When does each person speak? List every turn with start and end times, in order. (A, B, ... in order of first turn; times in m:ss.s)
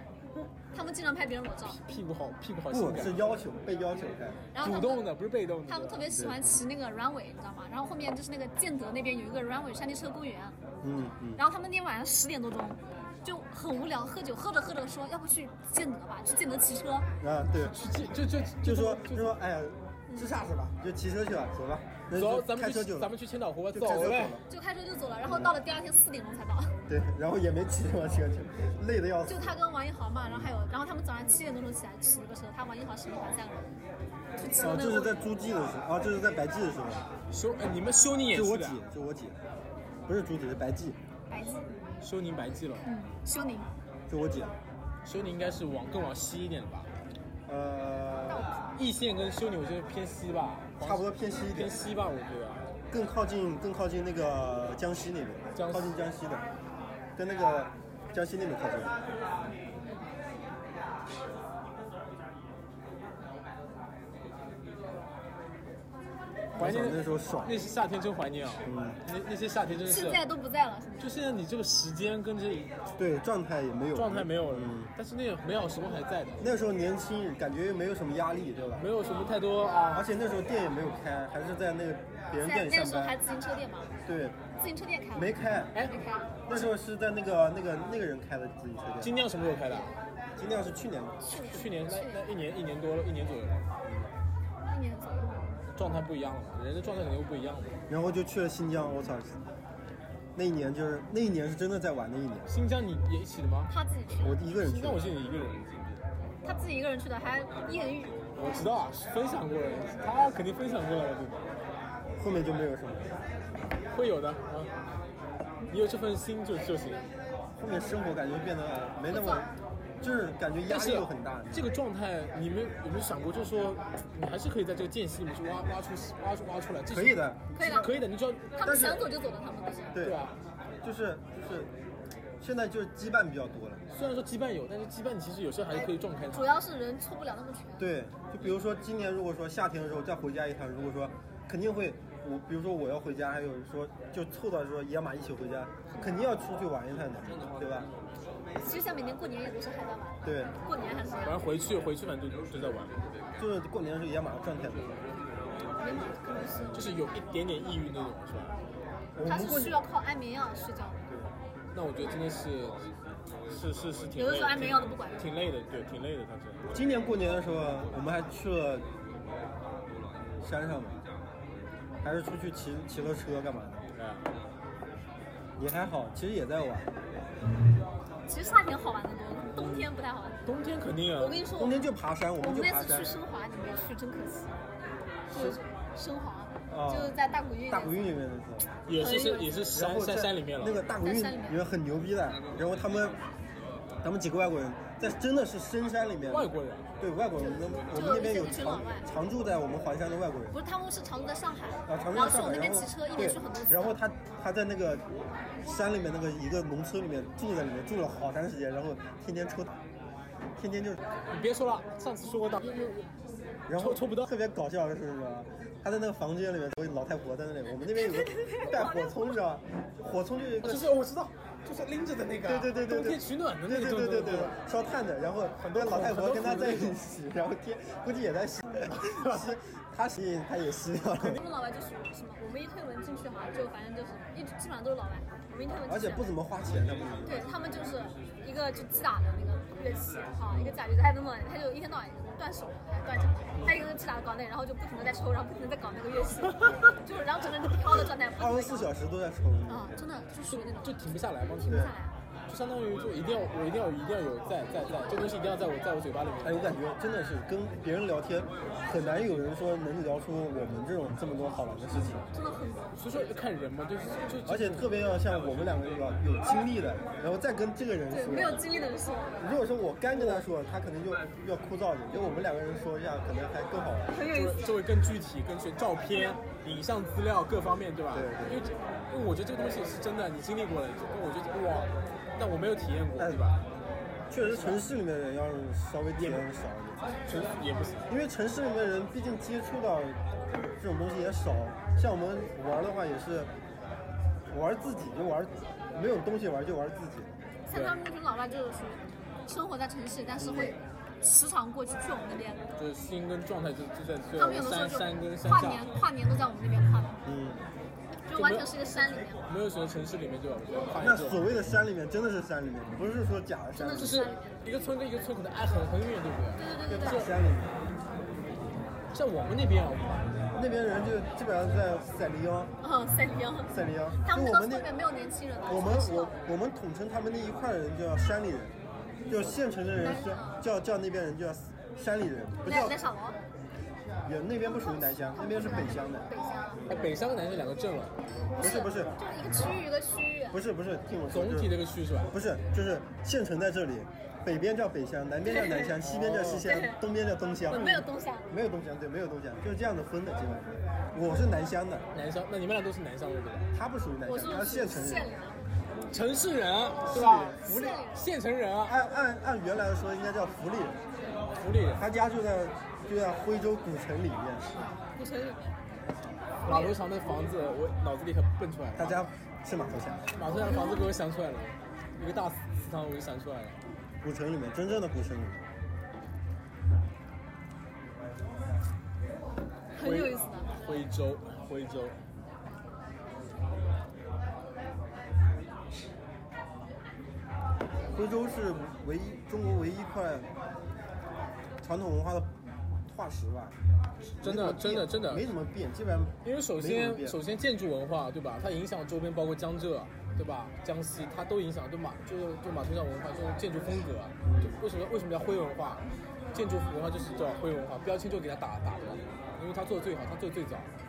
0:00.4-0:01.8 A
0:01.7-0:03.3 B
0:02.7-0:04.5 C
0:04.5-0:05.1 A
0:04.6-0:06.1 B
0:05.7-0:10.6 A
0:06.2-0:06.4 C
0:10.8-0:11.4 C
0:11.4-0:17.1 A
0:17.2-0:17.8 C
0:17.5-0:19.3 B
0:18.6-0:23.1 C
0:20.1-0:20.4 A
0:22.1-0:24.4 B
0:23.7-0:24.4 C
0:24.5-0:26.8 A
0:25.2-0:25.5 C
0:26.9-0:29.6 C
0:29.3-0:33.7 A
0:34.4-0:35.2 A
0:34.5-0:37.1 C
0:37.3-0:38.8 B
0:38.3-0:39.4 C
0:40.1-0:41.0 C
0:41.3-0:41.7 A
0:42.0-0:42.9 B
0:42.8-0:43.7 A
0:44.1-0:44.5 C
0:45.0-0:46.9 B
0:47.5-0:48.5 C
0:48.3-0:48.8 A
0:48.8-0:52.6 B
0:50.8-0:51.8 C
0:52.9-0:56.5 C
0:55.6-0:56.0 B
0:57.2-0:58.9 C
1:06.6-1:10.2 B
1:06.6-1:07.6 C
1:08.6-1:09.0 C
1:09.8-1:11.2 A
1:11.0-1:12.8 B
1:13.0-1:14.9 C
1:13.9-1:16.6 B
1:16.4-1:18.9 C
1:18.8-1:20.1 B
1:19.9-1:23.2 C
1:22.4-1:23.9 A
1:24.1-1:24.4 C
1:24.6-1:26.3 A
1:25.1-1:25.7 C
1:26.5-1:29.2 C
1:29.0-1:29.9 B
1:30.4-1:31.2 C
1:31.2-1:33.6 B
1:31.3-1:32.2 A
1:33.8-1:34.1 C
1:34.7-1:35.6 A
1:35.8-1:37.8 B
1:37.9-1:39.4 C
1:40.4-1:42.5 C
1:42.5-1:43.7 B
1:43.7-1:44.4 A
1:44.2-1:45.1 C
1:44.5-1:45.9 B
1:46.4-1:48.2 A
1:48.4-1:51.4 B
1:52.2-1:53.1 C
1:53.9-1:54.7 B
1:55.7-1:57.0 B
1:57.6-1:59.5 C
1:59.1-1:59.5 A
2:00.0-2:01.7 C
2:00.7-2:08.6 B
2:06.9-2:07.8 C
2:07.5-2:08.0 A
2:08.5-2:10.0 A
2:08.6-2:09.1 C
2:09.9-2:10.3 C
2:10.0-2:10.4 B
2:10.8-2:11.7 C
2:12.4-2:13.8 C
2:13.9-2:16.6 B
2:15.7-2:18.0 A
2:17.8-2:27.9 C
2:25.9-2:26.2 A
2:28.6-2:31.4 A
2:30.2-2:30.5 C
2:31.2-2:33.0 B
2:33.4-2:35.0 C
2:35.8-2:36.9 A
2:36.7-2:38.5 B
2:39.2-2:39.8 C
2:39.2-2:41.0 A
2:41.7-2:42.8 B
2:43.5-2:46.7 B
2:44.2-2:45.3 A
2:46.7-2:48.9 C
2:50.4-2:51.0 C
2:52.0-2:53.8 C
2:54.0-2:54.3 B
2:55.6-2:56.9 C
2:58.3-3:00.4 A
2:59.6-2:59.9 B
3:00.5-3:01.5 B
3:01.2-3:01.8 A
3:01.5-3:03.1 C
3:02.4-3:04.6 A
3:05.3-3:08.0 A
3:06.7-3:08.7 C
3:08.8-3:10.8 B
3:08.9-3:09.7 A
3:09.7-3:13.2 C
3:11.0-3:11.6 A
3:14.0-3:20.6 C
3:16.3-3:16.9 B
3:17.4-3:19.1 A
3:20.5-3:24.0 A
3:21.9-3:25.0 C
3:25.6-3:29.8 C
3:30.6-3:31.0 C
3:31.3-3:33.1 B
3:33.7-3:40.9 C
3:33.7-3:34.3 B
3:37.9-3:39.2 A
3:40.6-3:44.6 B
3:42.4-3:51.4 C
3:45.6-3:47.0 B
3:48.9-3:49.6 B
3:51.2-3:56.3 A
3:55.9-3:57.4 C
3:57.2-4:08.9 A
4:07.9-4:09.9 C
4:09.7-4:12.1 A
4:10.5-4:11.9 B
4:11.7-4:11.9 C
4:12.5-4:16.8 B
4:16.4-4:22.3 C
4:22.3-4:23.0 A
4:23.0-4:25.0 B
4:24.5-4:28.7 C
4:28.1-4:29.4 A
4:29.4-4:34.1 C
4:34.1-4:34.7 A
4:34.2-4:43.6 B
4:38.1-4:38.6 C
4:43.2-4:43.4 C
4:44.3-4:47.0 C
4:44.4-4:44.8 B
4:46.2-4:46.5 B
4:47.3-4:48.1 B
4:48.1-4:50.2 C
4:50.8-4:53.5 C
4:54.5-4:57.3 C
4:57.7-5:02.6 A
4:57.7-4:58.0 B
5:00.4-5:00.8 C
5:02.8-5:05.8 B
5:04.4-5:07.2 A
5:07.2-5:07.6 C
5:08.3-5:09.4 A
5:08.3-5:11.5 B
5:11.0-5:14.3 C
5:13.8-5:17.3 B
5:13.9-5:14.5 A
5:16.6-5:17.3 A
5:16.9-5:17.7 C
5:19.1-5:20.3 B
5:20.5-5:22.7 C
5:22.8-5:26.4 A
5:23.7-5:24.9 C
5:25.7-5:28.8 C
5:29.3-5:33.0 C
5:30.0-5:30.6 A
5:32.6-5:33.4 A
5:34.2-5:36.3 C
5:34.7-5:37.1 A
5:36.9-5:38.2 B
5:38.6-5:40.6 A
5:38.6-5:39.2 C
5:40.5-5:52.1 C
5:41.3-5:42.3 B
5:45.5-5:46.0 A
5:45.6-5:46.7 B
5:46.6-5:47.0 A
5:47.7-5:48.5 A
5:52.1-5:53.7 B
5:53.7-5:55.3 C
5:54.3-5:55.6 A
5:56.1-5:59.0 B
5:57.1-5:58.0 C
5:57.2-5:58.2 A
5:58.8-6:01.0 C
6:01.6-6:02.0 B
6:02.0-6:04.7 C
6:04.8-6:05.8 A
6:06.6-6:09.2 B
6:06.7-6:07.0 A
6:09.0-6:10.3 C
6:10.4-6:13.8 B
6:10.5-6:11.1 A
6:14.2-6:15.7 C
6:20.0-6:20.7 A
6:20.0-6:22.2 B
6:28.1-6:30.5 C
6:31.8-6:33.8 C
6:34.4-6:35.5 B
6:34.4-6:37.4 C
6:36.4-6:50.9 B
6:44.4-6:44.8 C